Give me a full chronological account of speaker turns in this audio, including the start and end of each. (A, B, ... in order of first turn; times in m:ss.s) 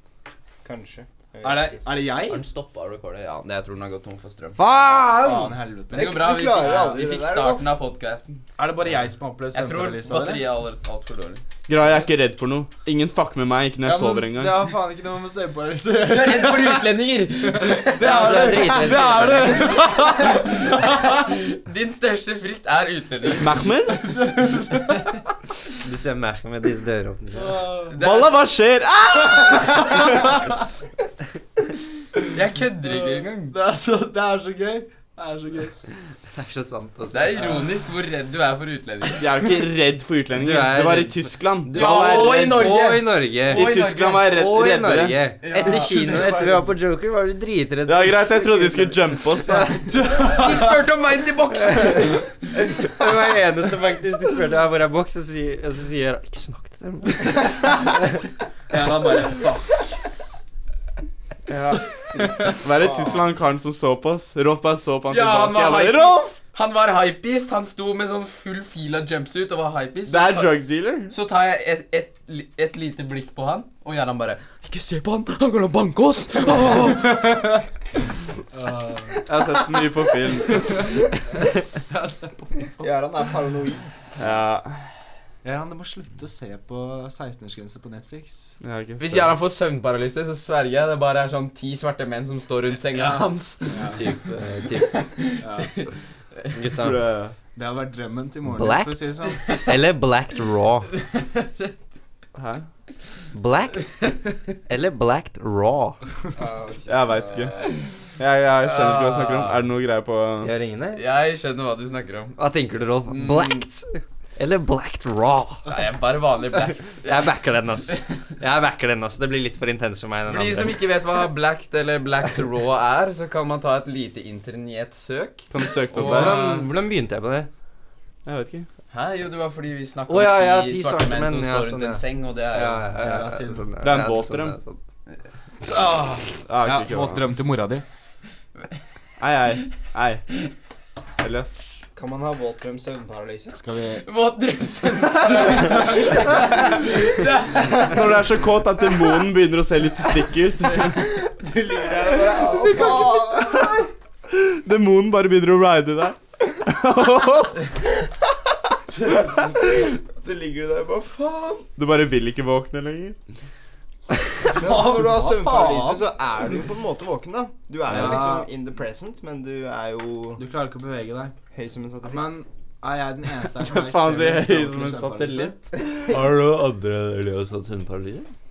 0:00.6-0:02.0 A
0:01.4-0:02.4 B
0:02.3-0:04.6 C
0:04.6-0:05.6 D
0:05.1-0:07.0 B
0:05.9-0:07.6 A
0:05.9-0:08.4 C
0:08.6-0:10.5 B
0:09.5-0:11.4 C
0:11.7-0:14.7 E
0:13.8-0:21.3 B
0:16.0-0:18.6 C
0:18.0-0:19.8 D
0:19.6-0:23.6 C
0:23.4-0:24.1 E
0:23.9-0:25.0 B
0:24.7-0:25.2 C
0:25.8-0:27.7 D
0:27.3-0:28.0 B
0:27.9-0:28.4 C
0:28.0-0:30.2 E
0:29.6-0:30.2 B
0:32.3-0:33.6 C
0:32.9-0:35.8 B
0:36.3-0:37.6 D
0:37.1-0:39.3 C
0:39.2-0:42.7 E
0:40.4-0:50.0 D
0:41.7-0:44.3 C
0:43.5-0:45.2 E
0:45.4-0:46.4 C
0:45.9-0:46.4 B
0:47.9-0:49.7 E
0:49.6-0:50.8 B
0:50.1-0:52.3 C
0:51.6-0:58.1 D
0:58.7-0:59.9 B
1:01.5-1:06.2 E
1:05.1-1:10.5 C
1:10.1-1:11.1 E
1:11.1-1:17.6 C
1:17.1-1:17.6 B
1:18.5-1:19.3 B
1:19.2-1:21.0 E
1:21.8-1:22.9 B
1:22.8-1:24.0 A
1:24.2-1:24.9 E
1:25.4-1:28.6 B
1:28.6-1:29.3 E
1:29.0-1:34.1 C
1:33.0-1:34.0 B
1:33.9-1:35.0 D
1:34.8-1:35.9 C
1:35.4-1:35.8 B
1:36.5-1:37.0 D
1:36.8-1:37.4 E
1:37.6-1:39.4 B
1:38.5-1:40.9 D
1:41.1-1:41.7 C
1:42.4-1:42.6 E
1:43.3-1:43.9 D
1:44.7-1:46.0 D
1:46.4-1:47.8 A
1:46.9-1:50.5 E
1:48.6-1:49.7 C
1:50.4-1:51.0 D
1:51.0-1:52.4 C
1:52.4-1:55.7 D
1:53.1-1:53.7 C
1:55.7-1:57.3 C
1:57.0-2:00.8 D
2:00.3-2:06.7 C
2:05.5-2:06.6 E
2:06.0-2:07.5 D
2:08.2-2:08.7 E
2:08.9-2:12.9 C
2:10.1-2:14.8 D
2:12.9-2:13.7 B
2:13.8-2:14.6 E
2:15.6-2:17.8 B
2:16.4-2:17.3 E
2:19.2-2:20.2 E
2:21.2-2:21.5 E
2:22.0-2:23.6 A
2:23.5-2:24.0 B
2:24.0-2:28.2 C
2:25.4-2:26.1 B
2:27.6-2:31.2 E
2:30.8-2:33.9 A
2:32.6-2:37.7 E
2:38.9-2:39.7 B
2:39.5-2:41.7 A
2:41.8-2:43.2 E
2:44.4-2:46.1 B
2:44.5-2:50.4 A
2:47.9-2:48.5 B
2:50.4-2:51.3 B
2:51.5-2:52.4 A
2:52.0-2:55.6 B
2:53.6-2:55.5 E
2:56.0-2:58.3 D